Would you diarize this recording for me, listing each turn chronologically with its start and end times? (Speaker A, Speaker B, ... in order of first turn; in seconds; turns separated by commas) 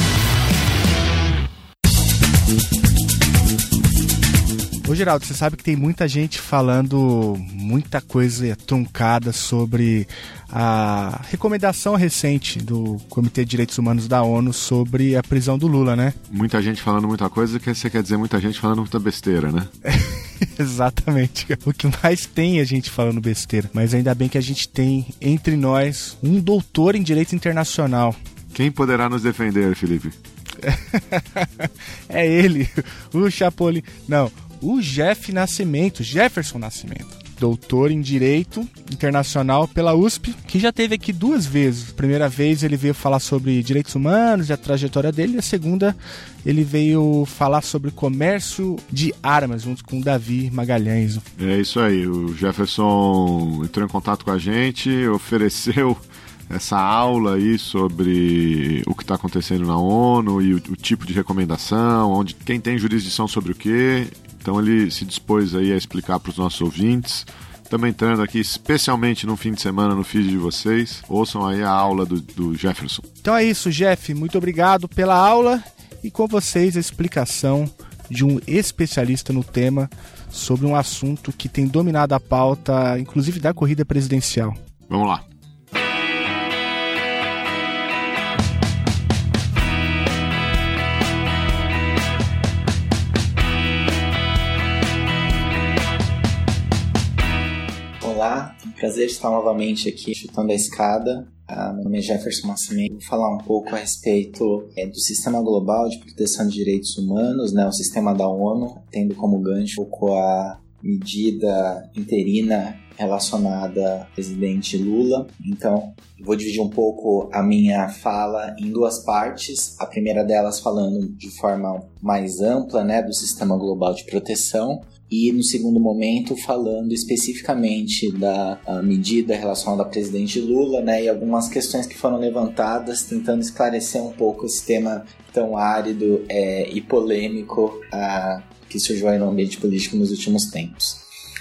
Speaker A: 4.8-16.2, Speaker B: 16.3-19.7, Speaker A: 19.9-28.2, Speaker B: 28.5-30.2, Speaker A: 30.6-51.2, Speaker B: 51.4-73.0, Speaker A: 73.2-84.6, Speaker B: 84.9-85.2, Speaker C: 98.0-141.1